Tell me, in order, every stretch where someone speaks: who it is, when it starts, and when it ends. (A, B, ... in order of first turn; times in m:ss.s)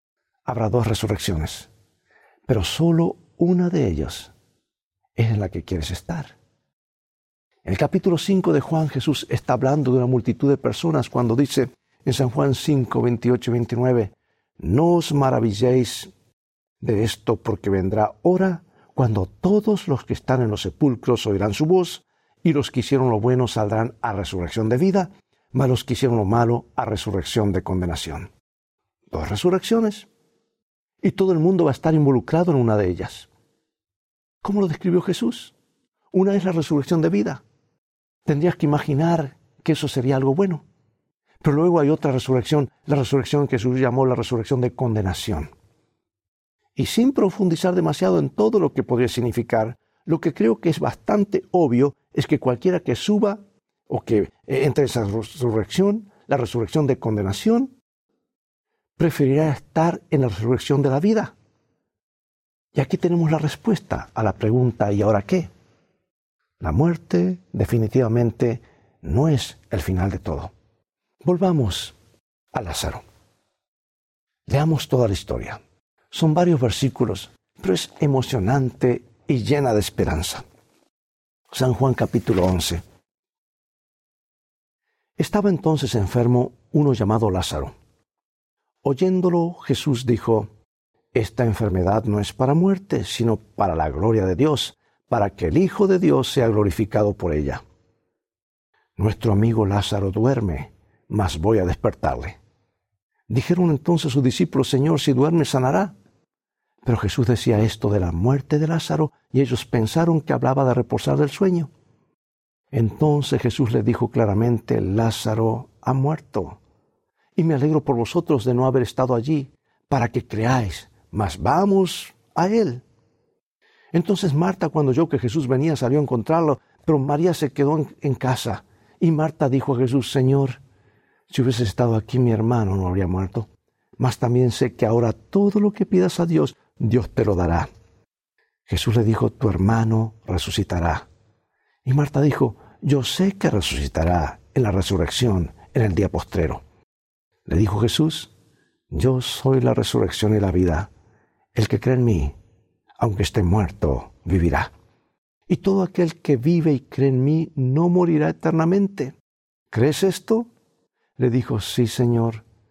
0:00.4-0:01.7 A
0:02.5-0:04.3 A
0:05.2-0:06.3 A
0:07.6-0:16.1 A
0:16.8-0:28.3 A
0:29.1-0:30.1 A
0:31.0-0:33.3 A
0:34.4-0:35.5 A
0:36.1-0:37.4 A
0:38.2-0:40.6 A
0:41.4-0:45.5 A
0:46.8-0:57.8 A
0:59.0-1:01.3 A
1:02.7-1:05.5 A
1:06.6-1:10.5 A
1:11.2-1:11.9 A
1:12.5-1:13.0 A
1:14.5-1:15.6 A
1:16.1-1:20.4 A
1:21.5-1:22.8 A
1:25.2-1:27.7 A
1:28.8-1:30.5 A
1:31.1-1:37.6 A
1:39.0-1:42.4 A
1:43.3-1:45.9 A
1:46.8-1:51.7 A
1:52.7-1:56.6 A
1:57.4-2:02.8 A
2:03.9-2:10.6 A
2:11.3-2:13.5 A
2:14.0-2:17.7 A
2:18.7-2:21.1 A
2:21.8-2:26.6 A
2:27.4-2:28.3 A
2:28.9-2:30.9 A
2:31.5-2:32.3 A
2:33.0-2:34.7 A
2:35.5-2:39.2 A
2:39.7-2:40.5 A
2:41.2-2:42.4 A